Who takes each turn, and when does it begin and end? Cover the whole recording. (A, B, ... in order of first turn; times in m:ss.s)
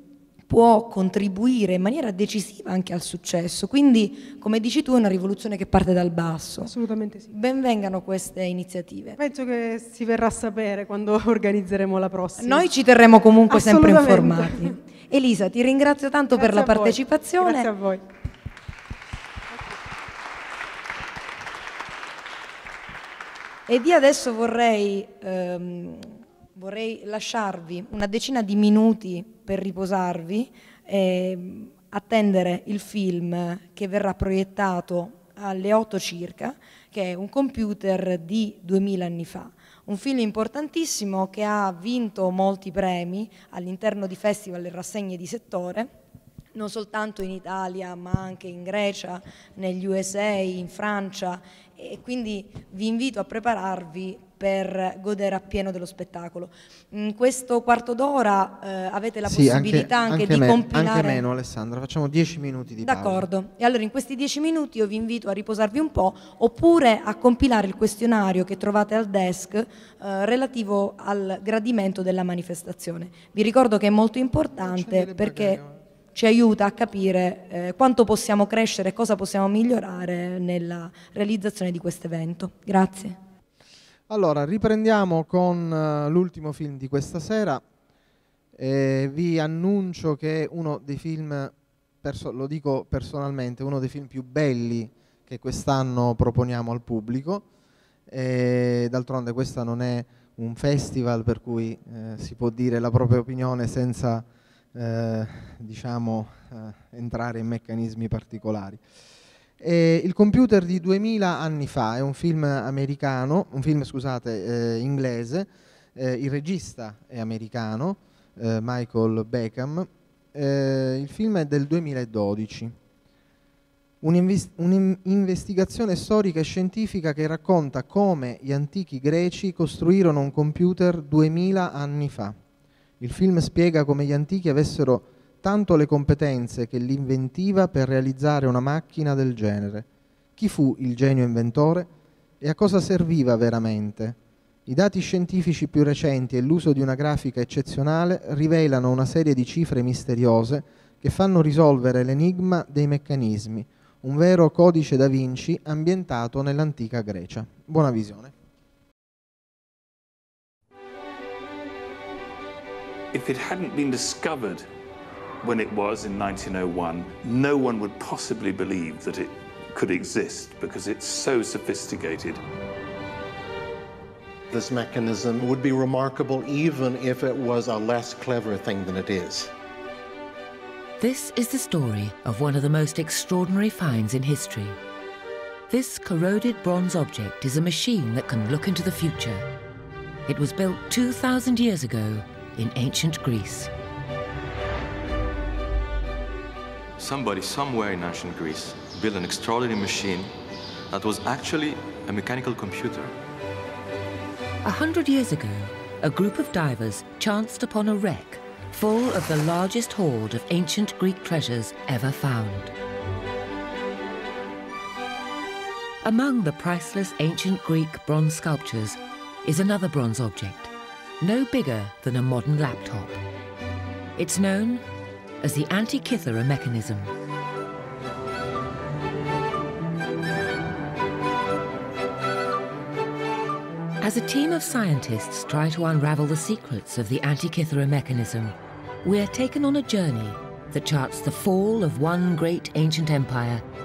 0:00.5-0:06.7 A
0:06.6-0:07.3 B
0:07.3-0:09.2 A
0:09.2-0:12.7 B
0:12.4-0:17.7 A
0:13.5-0:14.8 B
0:16.3-0:18.0 B
0:23.7-0:45.9 A
0:46.5-1:01.2 A
0:59.3-1:03.2 C
1:02.8-1:15.6 A
1:14.6-1:15.8 C
1:16.1-1:23.2 A
1:24.1-1:27.6 C
1:28.6-1:37.5 C
1:38.1-1:48.8 C
1:49.6-2:02.8 C
2:04.0-2:12.4 C
2:13.0-2:21.9 C
2:22.4-2:38.3 C
2:43.1-2:44.7 D
2:45.4-2:52.4 D
2:54.5-2:59.5 E
3:01.0-3:04.8 F
3:05.7-3:09.5 F
3:10.3-3:13.7 F
3:17.0-3:20.4 G
3:20.9-3:23.2 G
3:24.6-3:32.7 F
3:36.0-3:43.2 F
3:44.2-3:44.8 F
3:45.4-3:47.1 F
3:54.0-4:03.6 F